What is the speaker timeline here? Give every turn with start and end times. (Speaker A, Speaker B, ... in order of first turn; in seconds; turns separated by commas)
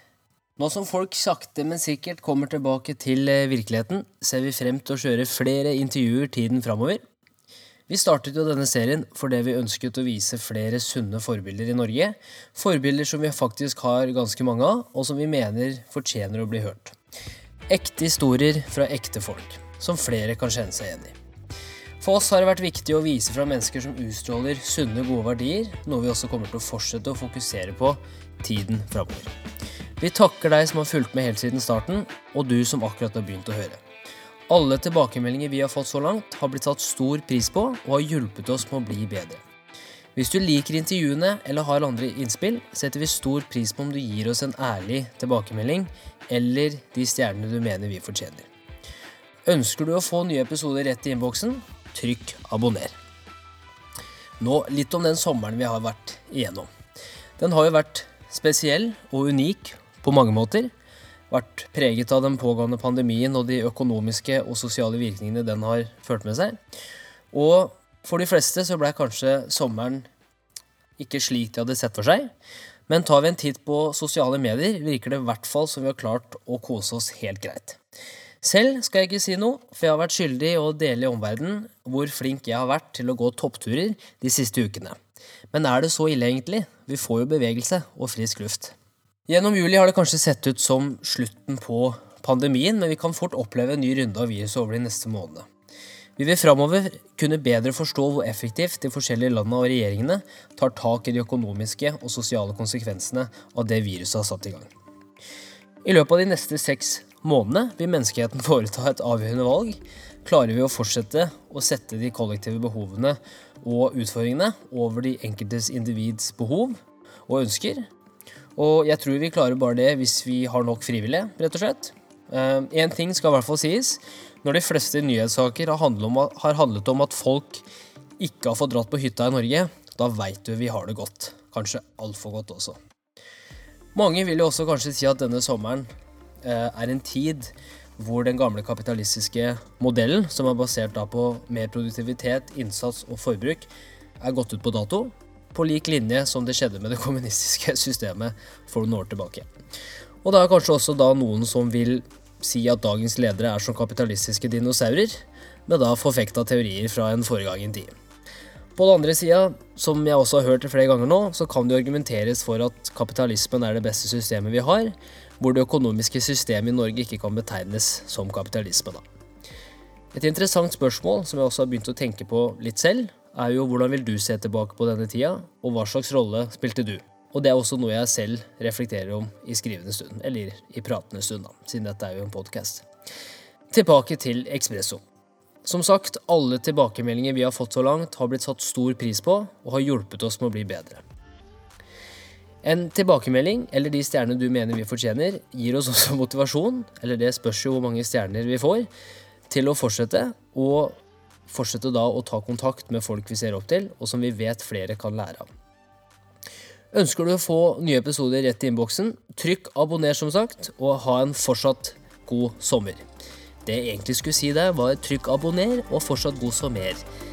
Speaker A: 0.6-7.0, Speaker A: 7.9-16.9, Speaker A: 17.7-21.2, Speaker A: 22.0-29.3, Speaker A: 30.0-33.8, Speaker A: 34.5-39.4, Speaker A: 40.1-48.5, Speaker A: 49.5-53.0, Speaker A: 54.4-56.7, Speaker A: 57.4-60.7, Speaker A: 61.3-66.6, Speaker A: 67.3-70.1, Speaker A: 71.0-72.3, Speaker A: 72.9-77.8, Speaker A: 78.4-85.0, Speaker A: 85.5-88.8, Speaker A: 89.3-95.5, Speaker A: 96.2-104.7, Speaker A: 105.8-117.9, Speaker A: 118.6-127.6, Speaker A: 128.2-132.8, Speaker A: 133.9-135.9, Speaker A: 136.4-149.5, Speaker A: 150.2-157.9, Speaker A: 158.8-169.0, Speaker A: 170.1-182.9, Speaker A: 183.7-185.0, Speaker A: 185.6-191.0, Speaker A: 192.6-198.9, Speaker A: 199.5-205.5, Speaker A: 206.9-213.0, Speaker A: 213.6-217.0